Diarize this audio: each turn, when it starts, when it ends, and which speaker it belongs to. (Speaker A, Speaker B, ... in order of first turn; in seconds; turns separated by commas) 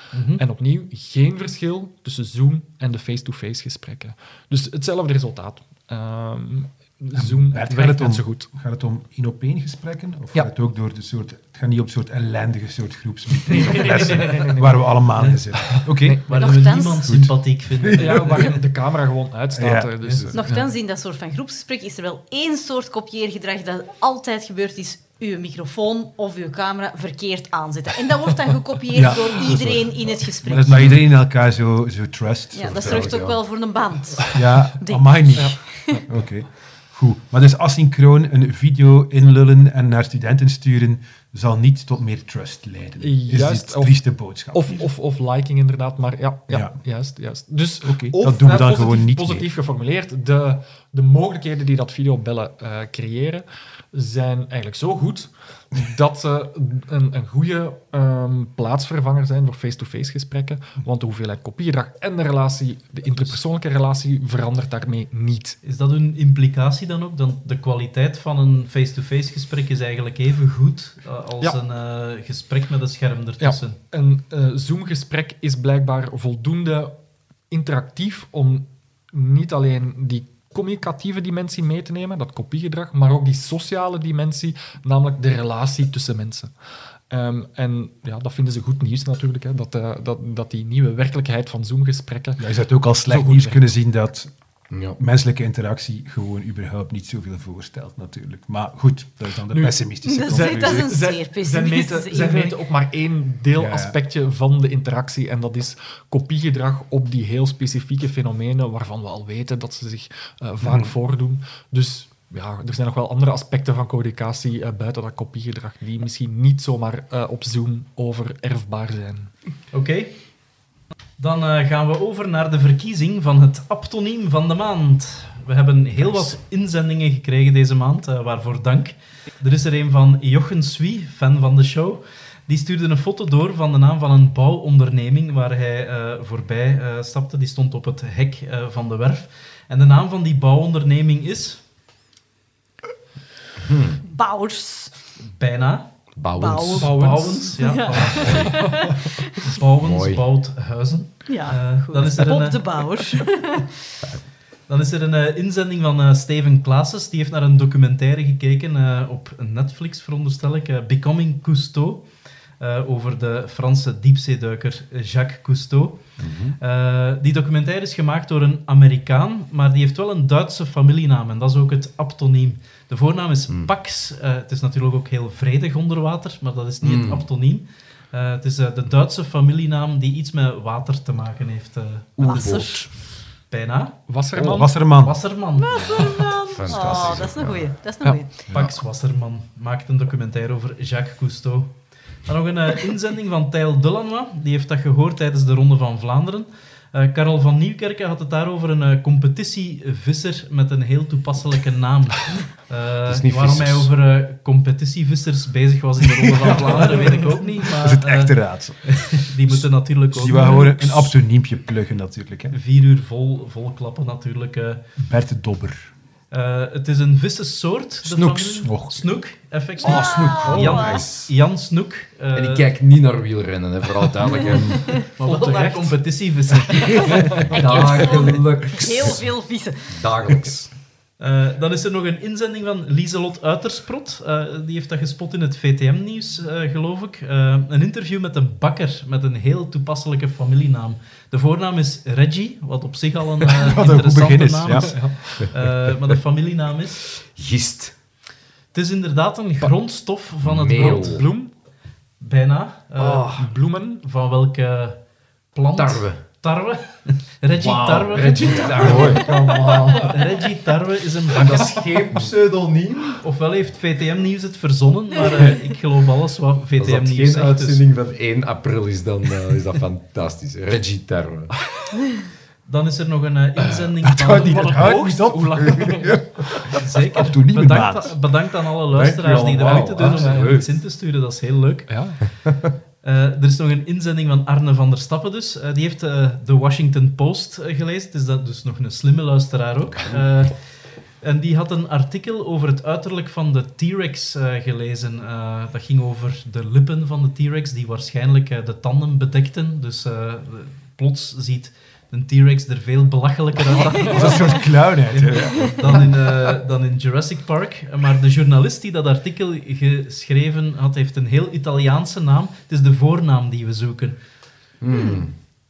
Speaker A: 0.1-0.4, Speaker B: 0.4-8.5, Speaker C: 7.1-18.6, Speaker B: 13.5-16.2, Speaker A: 15.2-15.4, Speaker A: 16.3-18.6, Speaker D: 16.3-17.1, Speaker B: 17.9-20.7, Speaker C: 19.6-20.3, Speaker D: 20.3-30.9, Speaker C: 28.9-33.1, Speaker D: 32.5-36.0, Speaker E: 32.7-33.4, Speaker C: 34.3-44.9, Speaker B: 35.3-36.2, Speaker B: 43.0-65.6, Speaker C: 46.5-46.8, Speaker C: 47.9-49.5, Speaker A: 65.6-73.8, Speaker B: 73.4-76.9, Speaker B: 77.5-86.5, Speaker B: 87.1-93.6, Speaker C: 92.4-94.3, Speaker E: 94.7-95.0, Speaker C: 95.0-100.9, Speaker B: 99.5-119.3, Speaker D: 100.0-102.5, Speaker C: 103.6-103.9, Speaker A: 119.7-120.6, Speaker A: 121.2-141.6, Speaker E: 143.6-144.0, Speaker D: 144.0-145.0, Speaker A: 145.2-146.0, Speaker E: 146.2-147.0, Speaker D: 146.4-146.9, Speaker A: 146.8-148.8, Speaker B: 146.8-148.8, Speaker D: 147.6-149.3, Speaker E: 147.9-148.7, Speaker A: 149.4-153.2, Speaker E: 149.8-150.2, Speaker D: 151.3-153.7, Speaker A: 154.7-184.1, Speaker E: 166.2-166.6, Speaker E: 176.8-177.3, Speaker E: 182.2-182.9, Speaker D: 182.2-183.0, Speaker B: 184.1-184.7, Speaker E: 184.4-184.6, Speaker C: 184.5-185.3, Speaker A: 184.8-186.2, Speaker D: 185.6-188.3, Speaker E: 185.7-187.8, Speaker A: 186.8-187.0, Speaker E: 188.5-188.8, Speaker A: 188.5-211.1, Speaker E: 203.1-203.9, Speaker C: 206.2-212.6, Speaker B: 210.2-210.7, Speaker A: 212.5-214.8, Speaker C: 215.0-215.9, Speaker A: 216.3-222.7, Speaker E: 218.0-218.7, Speaker C: 218.7-219.0, Speaker D: 219.8-221.1, Speaker E: 219.8-221.3, Speaker E: 222.3-225.1, Speaker D: 224.8-225.0, Speaker A: 225.1-227.3, Speaker B: 225.2-226.0, Speaker D: 226.7-229.9, Speaker E: 227.4-229.3, Speaker B: 227.5-228.8, Speaker E: 229.9-230.7, Speaker B: 230.2-230.7, Speaker A: 231.2-247.1, Speaker C: 243.5-245.0, Speaker B: 244.9-245.5, Speaker E: 247.2-248.0, Speaker A: 248.7-251.3, Speaker E: 250.4-251.2, Speaker B: 250.8-251.5, Speaker A: 252.2-253.4, Speaker E: 253.0-253.5, Speaker B: 253.1-254.0, Speaker A: 254.0-259.2, Speaker E: 255.7-256.3, Speaker E: 257.6-259.9, Speaker B: 258.4-260.3, Speaker C: 258.8-259.2, Speaker A: 260.0-262.1, Speaker E: 261.4-262.3, Speaker B: 261.4-263.2, Speaker A: 263.2-267.8, Speaker E: 266.8-271.5, Speaker A: 272.7-275.0, Speaker C: 274.1-278.2, Speaker B: 274.3-276.4, Speaker A: 276.7-282.3, Speaker E: 278.9-280.7, Speaker B: 279.6-280.6, Speaker B: 281.9-282.2, Speaker A: 283.0-314.2, Speaker B: 303.9-304.3, Speaker C: 304.0-306.1, Speaker E: 314.8-315.4, Speaker D: 314.9-315.2